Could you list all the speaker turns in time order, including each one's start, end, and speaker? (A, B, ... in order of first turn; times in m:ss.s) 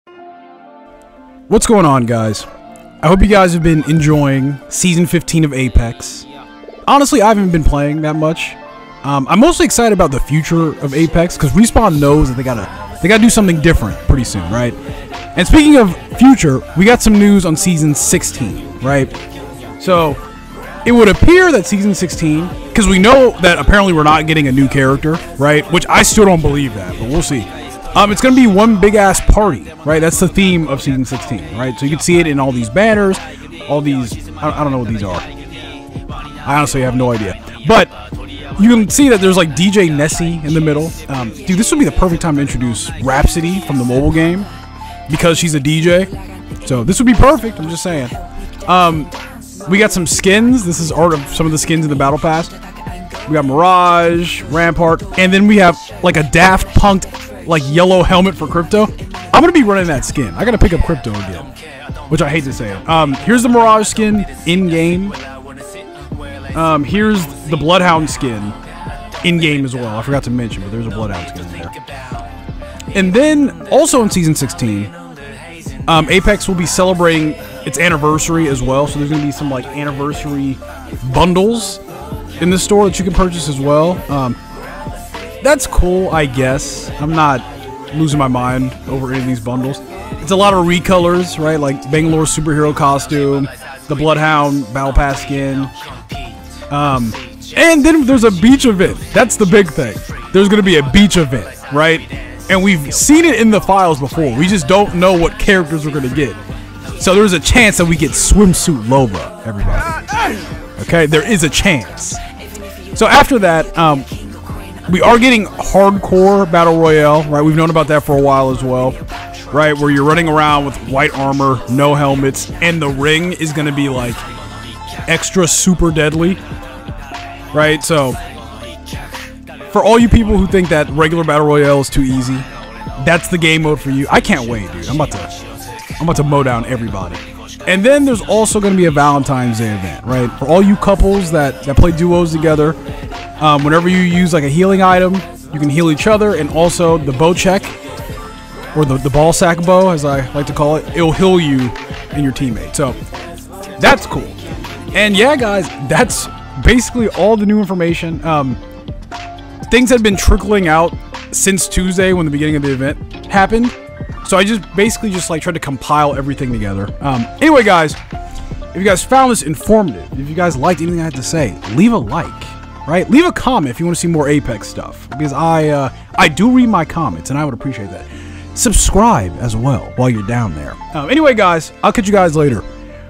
0:01.5-0:02.5 A
0:03.0-0:06.3 A
0:06.9-0:14.8 A
0:15.4-0:19.2 A
0:19.8-0:20.2 A
0:20.8-0:35.3 A
0:36.4-0:38.0 A
0:38.6-0:44.5 A
0:45.1-0:48.1 A
0:48.7-0:49.1 A
0:49.6-0:52.6 A
0:53.3-1:01.5 A
1:02.1-1:05.2 A
1:06.5-1:08.6 A
1:09.2-1:11.8 A
1:12.9-1:14.9 A
1:15.8-1:21.8 A
1:22.4-1:24.4 A
1:25.4-1:35.7 A
1:36.7-1:46.4 A
1:47.0-1:52.2 A
1:52.9-1:54.1 A
1:54.9-1:59.0 A
1:59.5-2:04.2 A
2:05.1-2:06.4 A
2:07.5-2:08.2 A
2:09.7-2:12.5 A
2:13.0-2:15.3 A
2:16.0-2:22.8 A
2:23.4-2:27.8 A
2:28.7-2:33.0 A
2:33.8-2:34.4 A
2:34.9-2:38.6 A
2:39.6-2:48.0 A
2:48.7-3:02.6 A